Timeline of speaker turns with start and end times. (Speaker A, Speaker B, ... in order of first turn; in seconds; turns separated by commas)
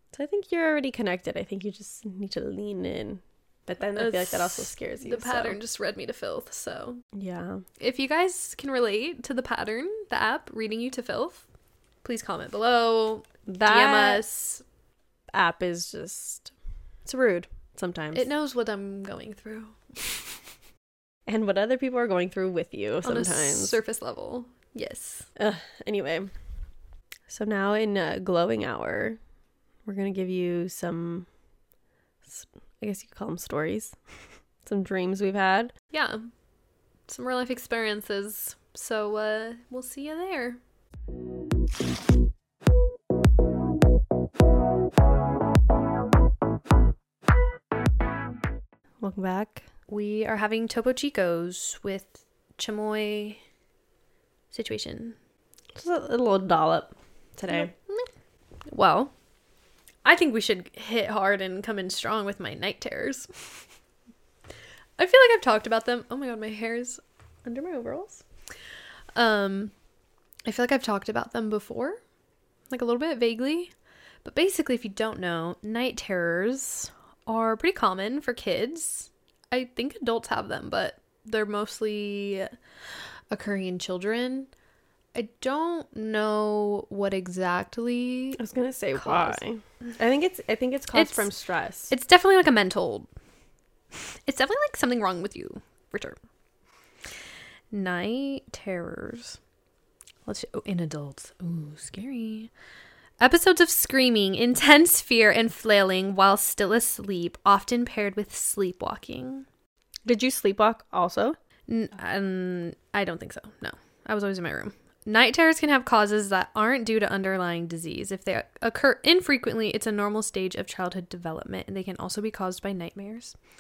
Speaker A: 0.1-5.6, Speaker B: 4.0-7.0, Speaker A: 7.1-7.6, Speaker B: 7.8-11.4, Speaker B: 12.0-14.6, Speaker A: 13.5-14.2, Speaker A: 15.3-16.5, Speaker A: 17.1-18.3, Speaker B: 18.1-20.2, Speaker A: 21.3-23.8, Speaker B: 23.0-25.3, Speaker A: 25.4-26.3, Speaker A: 27.3-29.2, Speaker A: 29.9-31.3, Speaker A: 32.2-34.0, Speaker A: 34.6-35.7, Speaker B: 35.9-36.3, Speaker B: 37.1-40.6, Speaker A: 49.0-49.7, Speaker B: 49.9-53.4, Speaker B: 54.5-55.2, Speaker A: 55.8-57.7, Speaker B: 57.5-58.1, Speaker B: 58.7-59.1, Speaker B: 60.0-63.3, Speaker B: 65.0-68.2, Speaker B: 69.2-69.7, Speaker B: 70.5-72.0, Speaker B: 72.7-73.7, Speaker B: 74.2-82.5, Speaker B: 83.3-84.5, Speaker B: 85.2-88.4, Speaker A: 88.4-91.9, Speaker B: 89.0-89.4, Speaker B: 90.9-91.3, Speaker B: 91.9-93.1, Speaker B: 94.3-96.2, Speaker B: 97.7-99.4, Speaker B: 100.3-102.5, Speaker B: 103.2-109.5, Speaker A: 110.1-111.4, Speaker B: 111.7-123.4